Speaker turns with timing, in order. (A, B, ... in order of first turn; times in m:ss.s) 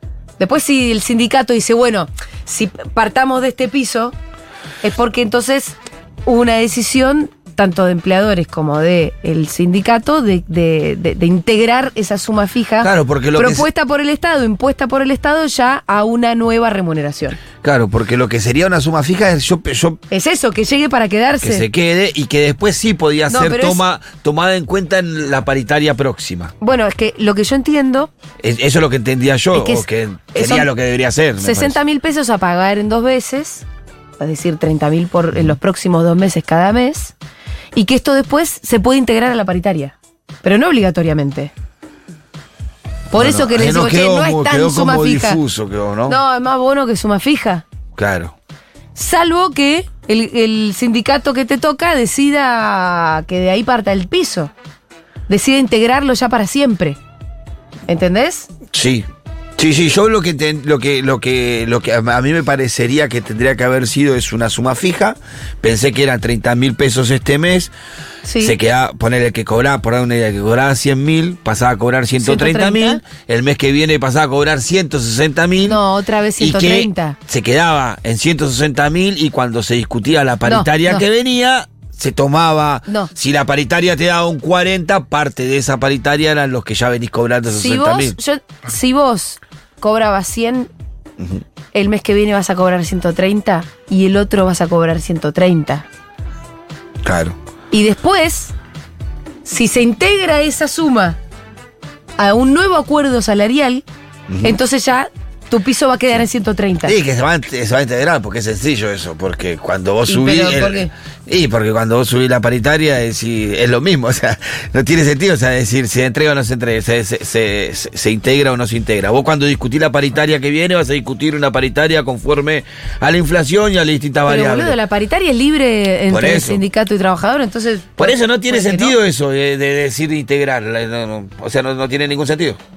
0:00.4-0:04.2 A
0:04.8-0:17.4 A
0:12.8-0:13.7 B
0:17.6-0:20.0 B
0:20.1-0:21.6 A
0:21.4-0:26.5 B
0:23.3-0:23.8 A
0:26.6-0:28.1 A
0:28.4-0:31.8 B
0:29.5-0:30.7 A
0:31.4-0:33.6 A
0:34.2-0:37.1 A
0:37.8-0:41.5 A
0:43.1-0:45.4 A
0:43.1-0:46.2 B
0:46.1-0:47.6 A
0:48.0-0:48.3 B
0:49.0-0:54.5 A
0:55.3-0:57.0 A
0:57.9-0:58.5 A
0:58.7-0:59.1 B
0:59.6-1:07.7 B
1:08.2-1:08.6 A
1:08.4-1:15.8 B
1:12.2-1:13.0 A
1:15.6-1:17.2 A
1:16.4-1:28.2 B
1:20.5-1:21.0 A
1:27.5-1:30.7 A
1:31.7-1:35.9 A
1:37.0-1:37.4 B
1:37.7-1:38.5 A
1:39.4-1:41.2 A
1:42.2-1:43.8 A
1:44.3-1:44.6 B
1:44.4-1:47.0 A
1:46.8-2:04.8 B
1:50.1-1:50.9 A
2:04.3-2:09.0 A
2:06.1-2:06.6 B
2:08.0-2:12.6 B